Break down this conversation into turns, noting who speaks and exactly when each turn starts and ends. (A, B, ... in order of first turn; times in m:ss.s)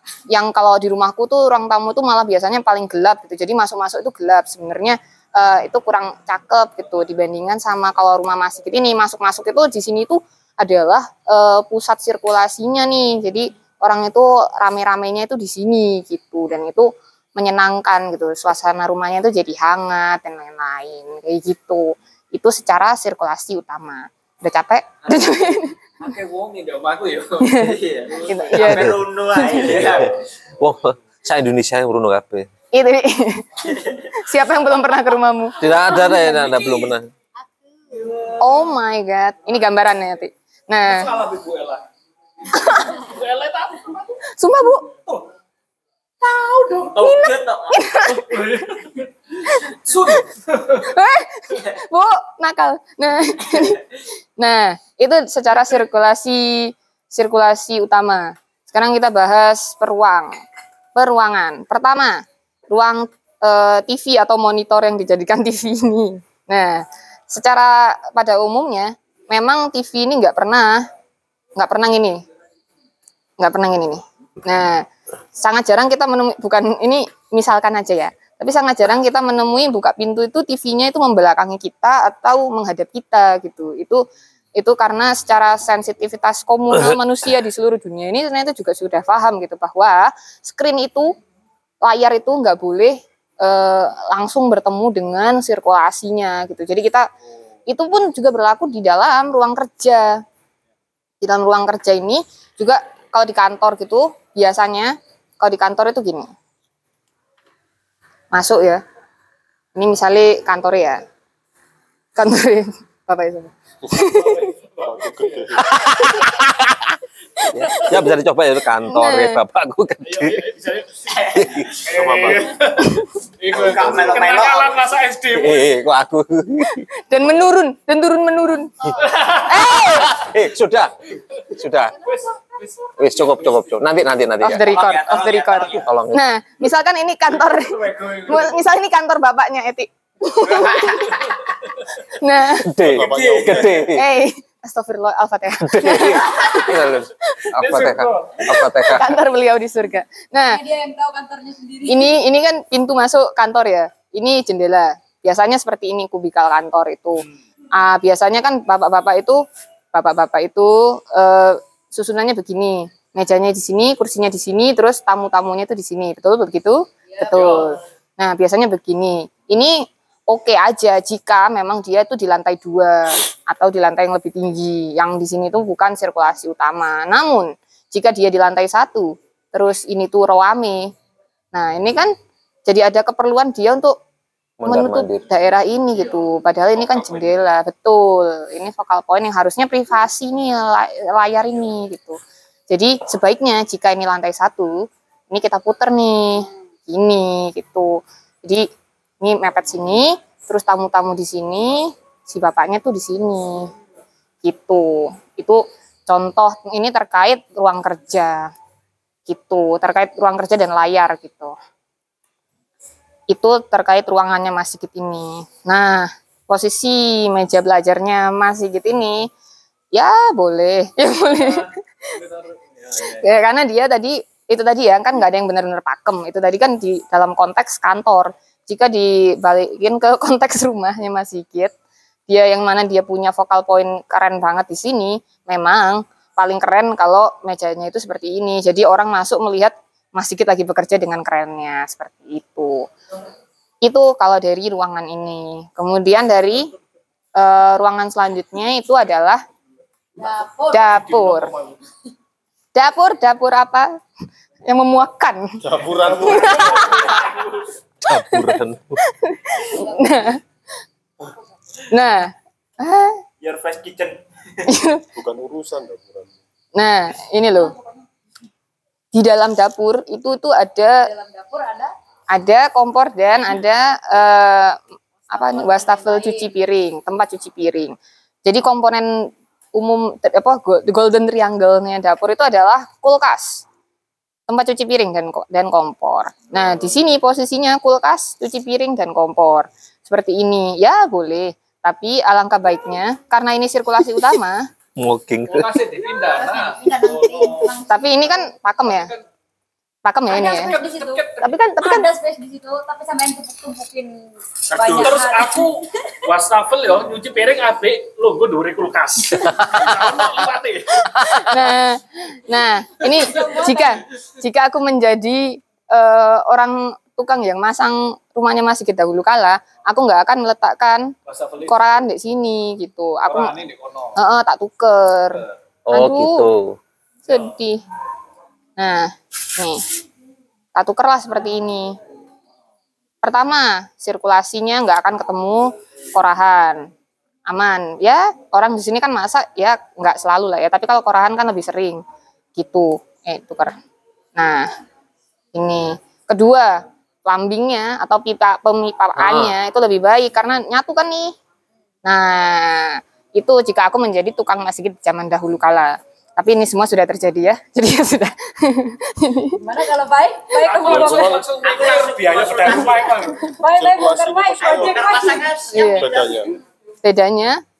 0:00.3-0:25.7 A
0:25.0-0:28.8 B
0:27.4-0:29.6 A
0:27.6-0:30.1 C
0:28.6-0:28.9 D
0:29.7-0:30.1 D
0:30.6-0:32.5 D
0:32.7-0:33.7 A
0:34.2-0:35.6 A
0:35.6-0:37.1 D
0:36.0-0:36.4 E
0:38.4-0:41.1 A
0:40.8-0:41.8 B
0:42.5-0:43.0 A
0:42.8-0:44.1 B
0:44.4-0:44.9 A
0:46.6-0:48.2 A
0:46.9-0:47.8 C
0:48.1-0:50.8 B
0:50.8-0:53.8 A
0:54.4-1:00.3 A
1:01.0-1:10.9 A
1:11.6-1:12.2 A
1:13.4-1:24.0 A
1:24.6-1:31.1 A
1:31.8-1:37.1 A
1:37.7-1:40.2 A
1:41.2-1:46.3 A
1:48.3-1:48.8 A
1:49.7-1:51.0 A
1:52.2-1:54.5 A
1:54.0-1:55.5 B
1:54.8-1:55.7 F
1:55.6-1:56.8 D
1:57.5-2:00.4 D
1:57.6-1:58.0 A
1:58.9-1:59.4 A
2:00.0-2:05.7 B
2:01.3-2:01.7 D
2:01.9-2:02.5 F
2:03.5-2:04.8 C
2:03.6-2:04.2 F
2:05.3-2:06.9 D
2:07.0-2:10.2 A
2:09.0-2:09.9 B
2:09.8-2:12.0 D
2:12.0-2:13.7 B
2:13.0-2:14.7 D
2:14.4-2:21.4 A
2:14.6-2:15.9 C
2:15.8-2:16.2 D
2:17.4-2:18.6 B
2:20.4-2:21.4 B
2:22.1-2:22.8 A
2:22.6-2:24.0 D
2:22.8-2:23.9 F
2:23.0-2:23.7 C
2:23.9-2:26.8 A
2:25.6-2:29.1 D
2:27.6-2:28.6 B
2:28.8-2:30.6 A
2:30.5-2:32.2 E
2:31.9-3:00.9 A
2:47.3-2:47.7 B
3:01.5-3:02.1 A
3:02.7-3:04.0 A
3:04.6-3:05.2 D
3:04.7-3:12.2 A
3:12.7-3:18.7 A
3:19.2-3:23.7 A
3:24.4-3:28.5 A
3:29.3-3:31.5 A
3:33.3-3:39.3 A
3:39.9-3:41.7 A
3:41.4-3:43.3 B
3:43.2-3:51.7 A
3:52.3-4:02.9 A
4:03.8-4:06.7 A
4:07.4-4:09.4 A
4:10.2-4:11.0 E
4:10.7-4:11.5 A
4:11.0-4:11.7 B
4:12.7-4:14.0 A
4:14.7-4:15.4 A
4:15.6-4:16.7 F
4:16.1-4:17.6 B
4:16.2-4:17.0 A
4:18.1-4:19.0 D
4:18.2-4:20.4 A
4:21.9-4:23.2 A
4:23.4-4:24.2 C
4:24.7-4:25.0 A
4:25.2-4:26.3 F
4:26.7-4:27.7 A
4:29.1-4:31.1 A
4:31.0-4:31.9 E
4:32.3-4:34.8 A
4:35.3-4:36.5 E
4:35.3-4:43.6 A
4:44.5-4:54.7 A
4:55.0-4:55.7 D
4:55.5-4:57.7 B
4:56.3-4:58.4 E
4:57.9-4:59.1 A
4:58.8-4:59.2 B
5:00.0-5:00.7 A
5:00.3-5:01.2 E
5:00.3-5:01.6 B
5:01.4-5:02.1 A
5:01.8-5:05.7 E
5:04.7-5:05.2 C
5:04.9-5:11.4 B
5:11.1-5:21.1 A
5:13.2-5:13.7 B
5:13.4-5:13.8 E
5:21.3-5:21.9 B
5:21.7-5:23.6 A
5:23.2-5:24.2 B
5:24.2-5:26.5 A
5:25.9-5:26.8 D
5:27.3-5:27.8 A
5:27.3-5:27.5 B
5:28.8-5:29.8 A
5:30.7-5:32.0 A
5:33.2-5:36.9 A
5:37.5-5:42.0 A
5:42.6-5:43.7 A
5:44.4-5:44.7 A
5:45.5-5:51.3 A
5:49.2-5:49.6 D
5:52.0-5:59.6 A
5:59.6-6:01.4 E
6:00.5-6:03.5 B
6:00.8-6:01.6 F
6:01.6-6:03.1 C
6:03.6-6:05.3 F
6:03.6-6:06.0 E
6:04.6-6:06.4 C
6:05.7-6:06.1 A
6:05.9-6:06.5 F
6:07.0-6:07.6 A